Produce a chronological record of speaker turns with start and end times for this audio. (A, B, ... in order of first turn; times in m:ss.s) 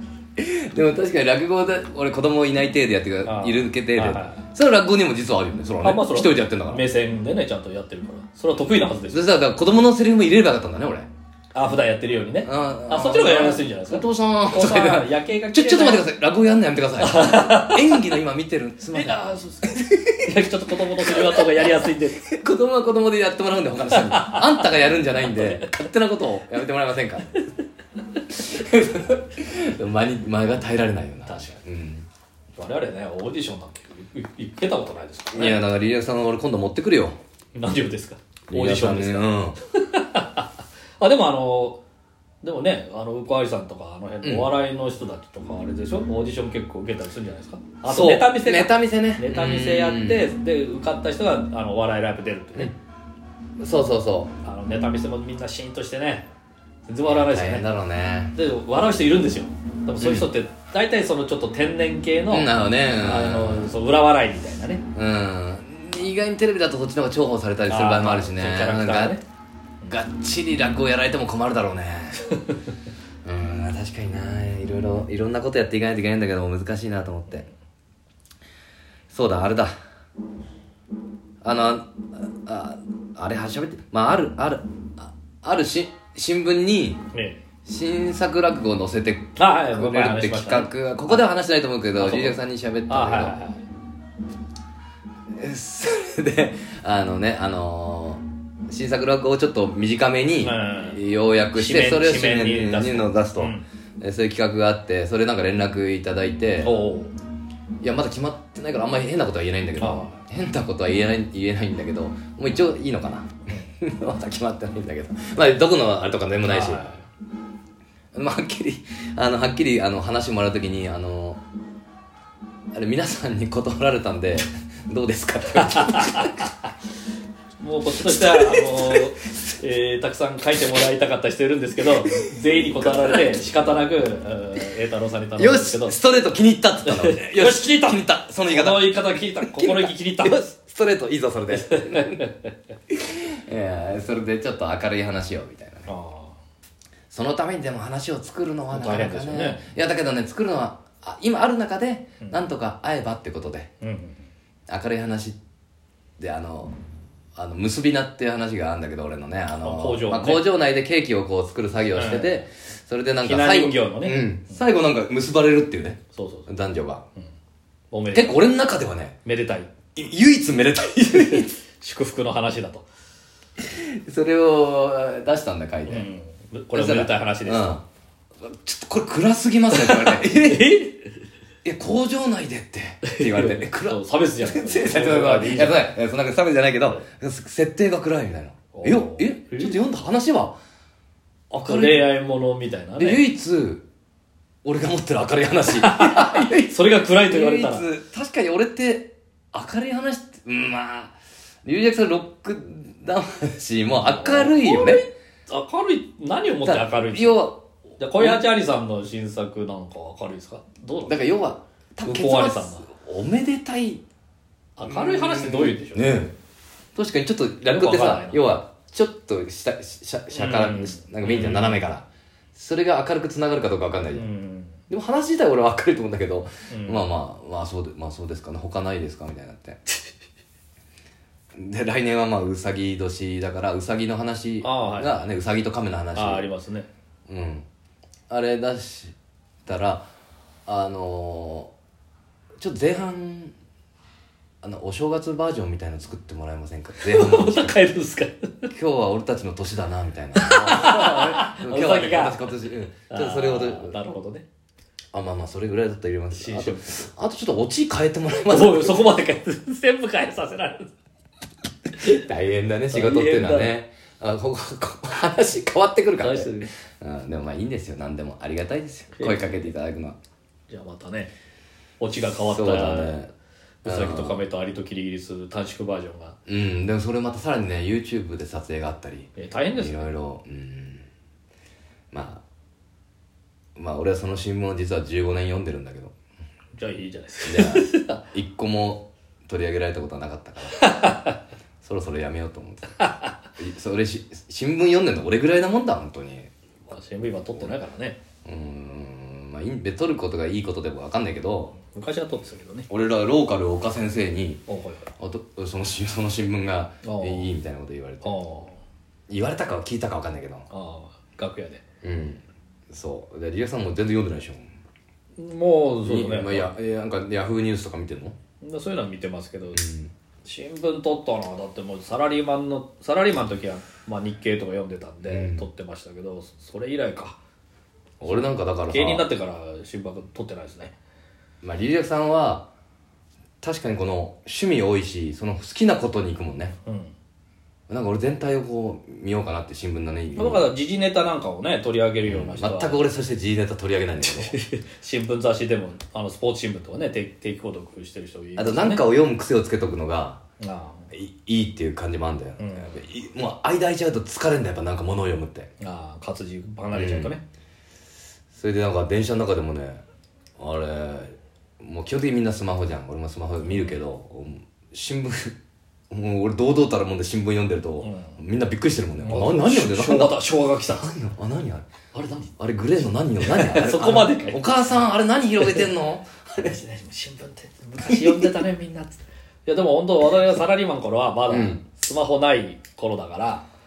0:00.4-0:06.8 A
0:03.2-0:04.4 B
0:05.8-0:09.2 B
0:09.1-0:11.1 A
0:11.5-0:16.1 B
0:12.4-0:20.3 A
0:17.0-0:18.0 B
0:18.9-0:22.3 B
0:21.0-0:27.3 A
0:23.9-0:24.6 B
0:25.3-0:25.7 B
0:28.3-0:32.0 A
0:31.2-0:31.6 B
0:32.6-0:35.6 B
0:35.3-0:37.2 A
0:37.5-0:40.4 B
0:38.5-0:39.6 A
0:41.0-0:41.8 B
0:42.4-0:52.7 B
0:44.2-0:44.5 A
0:47.8-0:50.3 A
0:53.6-0:54.3 A
0:54.4-0:56.2 B
0:56.9-0:57.6 B
0:57.0-0:58.3 A
0:58.3-1:04.8 B
1:00.0-1:00.3 A
1:02.3-1:03.8 A
1:04.9-1:09.2 A
1:07.7-1:09.2 B
1:09.9-1:12.2 A
1:13.2-1:17.5 A
1:19.1-1:19.7 A
1:21.4-1:27.0 A
1:27.1-1:27.4 B
1:27.6-1:33.4 A
1:29.4-1:31.2 B
1:32.0-1:32.4 B
1:32.9-1:33.6 B
1:35.4-1:46.7 A
1:40.4-1:41.0 B
1:41.5-1:43.6 B
1:46.6-1:47.1 B
1:47.8-1:56.9 A
1:49.8-1:50.2 B
1:56.4-1:57.0 B
1:58.1-2:01.4 A
2:02.7-2:06.4 A
2:05.7-2:06.3 B
2:07.6-2:16.0 B
2:08.0-2:09.1 A
2:12.1-2:13.6 A
2:15.4-2:22.2 A
2:16.8-2:20.4 B
2:21.5-2:22.4 B
2:22.9-2:25.9 A
2:25.9-2:26.4 B
2:27.1-2:33.7 A
2:28.7-2:29.7 B
2:33.8-2:34.2 B
2:34.7-2:35.4 A
2:36.2-2:36.7 A
2:37.4-2:47.0 A
2:39.5-2:40.4 B
2:41.9-2:42.4 B
2:43.2-2:44.6 B
2:46.1-2:46.5 B
2:47.9-2:48.4 B
2:48.1-2:49.2 A
2:49.2-2:49.7 B
2:49.9-2:51.5 A
2:51.3-2:52.8 B
2:53.6-2:56.1 A
2:55.9-2:57.7 B
2:56.7-2:57.8 A
2:58.4-3:00.8 A
2:59.7-3:01.1 B
3:01.6-3:10.6 A
3:03.0-3:05.9 B
3:08.7-3:09.8 B
3:11.5-3:12.1 A
3:11.6-3:13.2 B
3:13.0-3:13.8 A
3:14.6-3:25.0 A
3:15.7-3:17.9 B
3:23.9-3:31.1 B
3:26.6-3:28.5 A
3:31.0-3:34.0 A
3:32.0-3:32.9 B
3:34.8-3:36.2 B
3:34.8-3:36.3 A
3:37.0-3:44.2 A
3:37.7-3:38.4 B
3:40.3-3:41.8 B
3:44.1-3:44.8 B
3:44.9-3:49.8 A
3:46.7-3:47.1 B
3:51.5-3:56.5 A
3:54.6-3:55.2 B
3:56.1-3:56.9 B
3:57.3-3:57.6 A
3:58.3-4:00.1 A
4:00.7-4:01.7 A
4:02.6-4:03.5 A
4:04.6-4:07.8 A
4:07.0-4:08.7 B
4:08.7-4:14.0 A
4:10.4-4:12.6 B
4:13.1-4:14.4 B
4:15.1-4:19.0 A
4:16.3-4:17.1 B
4:18.4-4:20.9 B
4:22.0-4:30.2 A
4:22.9-4:23.7 B
4:26.2-4:26.7 B
4:29.1-4:29.6 B
4:30.7-4:31.3 B
4:32.0-4:33.3 B
4:32.4-4:33.3 A
4:33.8-4:36.4 B
4:33.8-4:34.4 A
4:36.5-4:41.0 A
4:39.4-4:40.0 B
4:42.1-4:42.4 A
4:43.8-4:46.1 A
4:46.8-4:48.2 B
4:47.4-4:50.9 A
4:50.7-4:51.4 B
4:51.8-4:53.0 A
4:53.0-4:53.3 B
4:53.6-4:56.5 A
4:56.9-4:58.2 B
4:58.4-5:01.8 A
5:01.8-5:02.9 B
5:02.9-5:04.6 A
5:04.7-5:05.1 B
5:05.2-5:08.3 A
5:07.0-5:07.5 B
5:08.2-5:08.8 B
5:09.3-5:10.7 A
5:10.7-5:11.8 B
5:12.0-5:14.7 A
5:15.4-5:16.7 B
5:16.0-5:18.4 A
5:18.6-5:19.9 B
5:19.7-5:20.1 A
5:20.4-5:27.4 B
5:25.2-5:25.6 A
5:28.2-5:29.3 A
5:28.2-5:30.9 B
5:31.6-5:32.7 A
5:33.6-5:36.7 A
5:36.8-5:37.1 B
5:37.9-5:40.7 A
5:40.3-5:43.0 B
5:42.2-5:44.6 A
5:44.2-5:49.0 B
5:48.6-5:50.4 A
5:50.6-5:51.1 B
5:51.1-5:55.7 A
5:52.6-5:53.0 B
5:55.8-5:57.4 B
5:56.9-5:57.3 A
5:58.5-6:00.0 A
6:00.6-6:05.5 A
6:03.6-6:03.9 B
6:06.1-6:10.4 A
6:08.0-6:08.4 B
6:09.2-6:11.1 B
6:10.9-6:11.8 A
6:12.1-6:12.5 B
6:12.6-6:16.7 A
6:13.4-6:14.7 B
6:15.6-6:15.9 B
6:16.6-6:23.6 B
6:18.1-6:18.6 A
6:21.5-6:21.8 A